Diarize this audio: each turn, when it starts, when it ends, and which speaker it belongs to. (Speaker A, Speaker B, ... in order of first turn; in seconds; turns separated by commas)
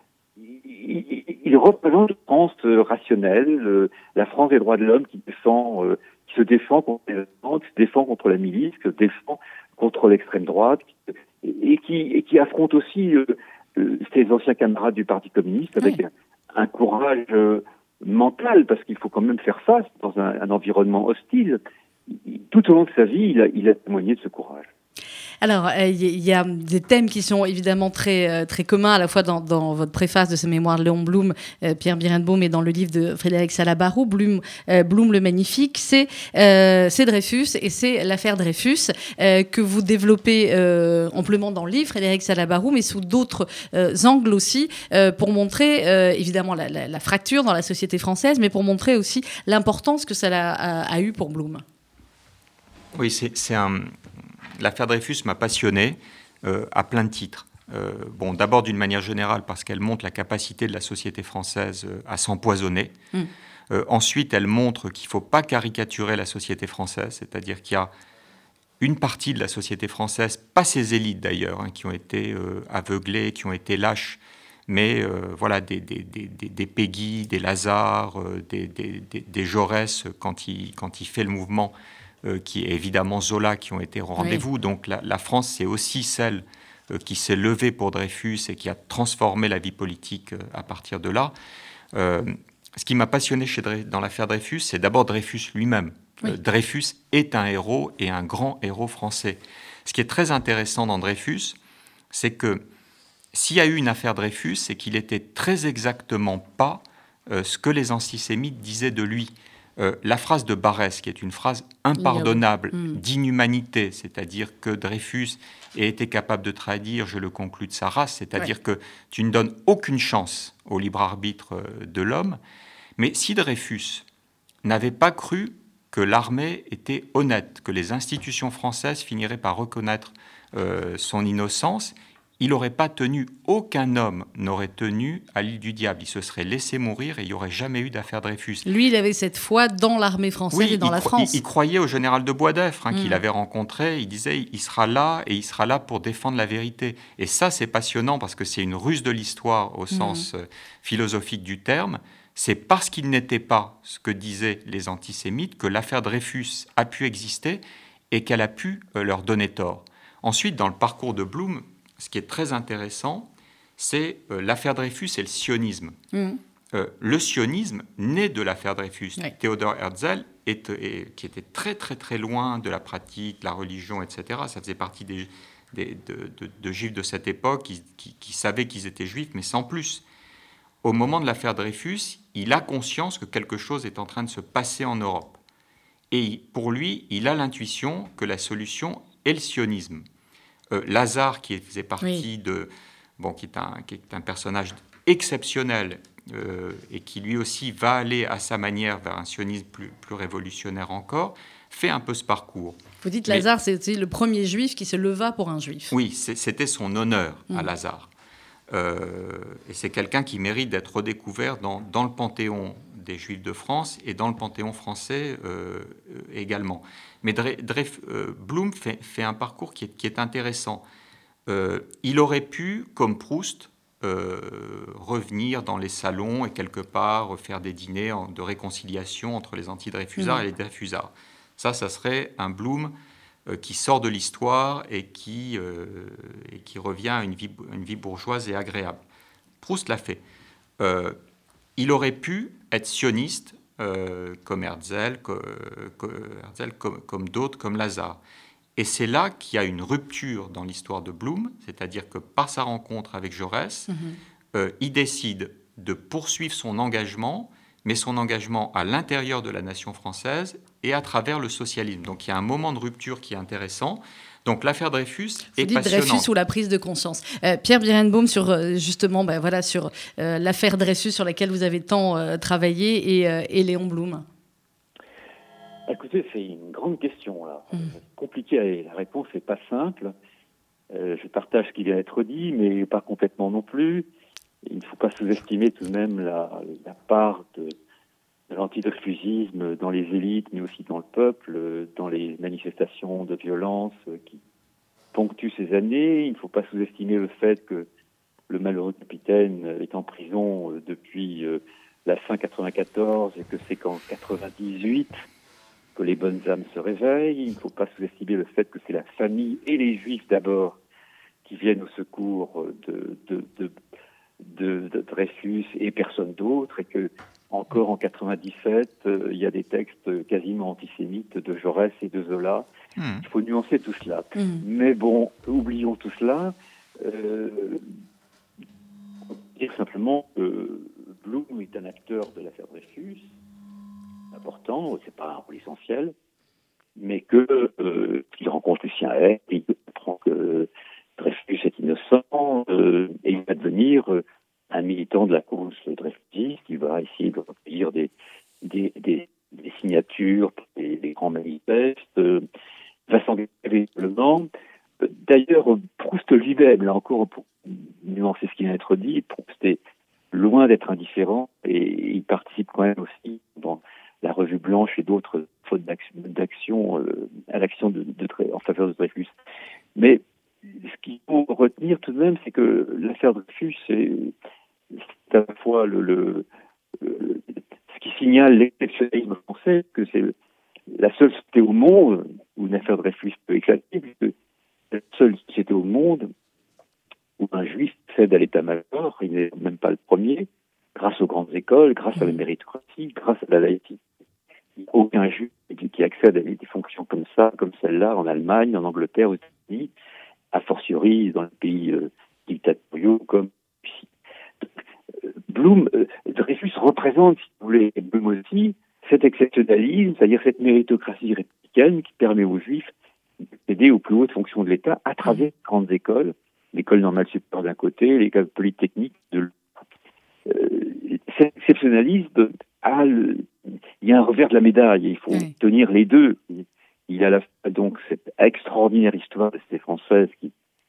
Speaker A: 0.4-24.7, Speaker B: 25.4-51.6, Speaker C: 53.0-54.0, Speaker C: 54.6-63.0, Speaker C: 63.7-67.9, Speaker C: 68.8-91.3, Speaker B: 84.2-84.4, Speaker C: 91.9-101.6, Speaker C: 102.1-102.6, Speaker C: 103.3-122.4, Speaker B: 112.0-113.0, Speaker C: 123.0-124.0, Speaker C: 124.6-138.7, Speaker B: 138.7-141.4, Speaker C: 140.5-166.0, Speaker B: 142.9-143.2, Speaker B: 149.9-150.3, Speaker B: 166.1-166.4, Speaker C: 166.7-180.0, Speaker C: 180.8-185.4, Speaker C: 186.1-190.0, Speaker C: 190.7-203.4, Speaker B: 203.0-205.9, Speaker C: 205.9-208.1, Speaker C: 208.7-220.8, Speaker C: 221.5-232.9, Speaker B: 230.2-230.4, Speaker C: 233.5-239.0, Speaker C: 239.6-240.2, Speaker C: 240.8-241.2, Speaker C: 241.8-248.2, Speaker C: 248.8-253.9, Speaker B: 253.9-254.2, Speaker C: 254.5-266.3, Speaker B: 265.6-274.2, Speaker A: 275.9-280.1, Speaker A: 280.9-284.1, Speaker A: 284.6-287.8, Speaker A: 288.5-294.4, Speaker A: 295.1-297.9, Speaker A: 298.5-305.1, Speaker A: 306.0-310.8, Speaker A: 311.5-313.7, Speaker A: 314.4-322.7, Speaker C: 323.0-323.2, Speaker A: 323.2-327.9, Speaker B: 324.4-324.6, Speaker A: 329.3-333.3, Speaker A: 334.3-336.1, Speaker A: 337.0-348.1, Speaker A: 348.6-352.4, Speaker A: 353.1-354.5, Speaker A: 355.0-359.8, Speaker A: 360.3-369.3, Speaker A: 370.0-374.3, Speaker A: 374.9-376.4, Speaker A: 377.0-380.3, Speaker A: 380.9-384.3, Speaker A: 384.9-386.3, Speaker A: 387.4-394.0, Speaker A: 394.8-399.9, Speaker A: 400.5-404.1, Speaker A: 405.5-412.9, Speaker A: 413.7-419.6, Speaker A: 420.5-430.5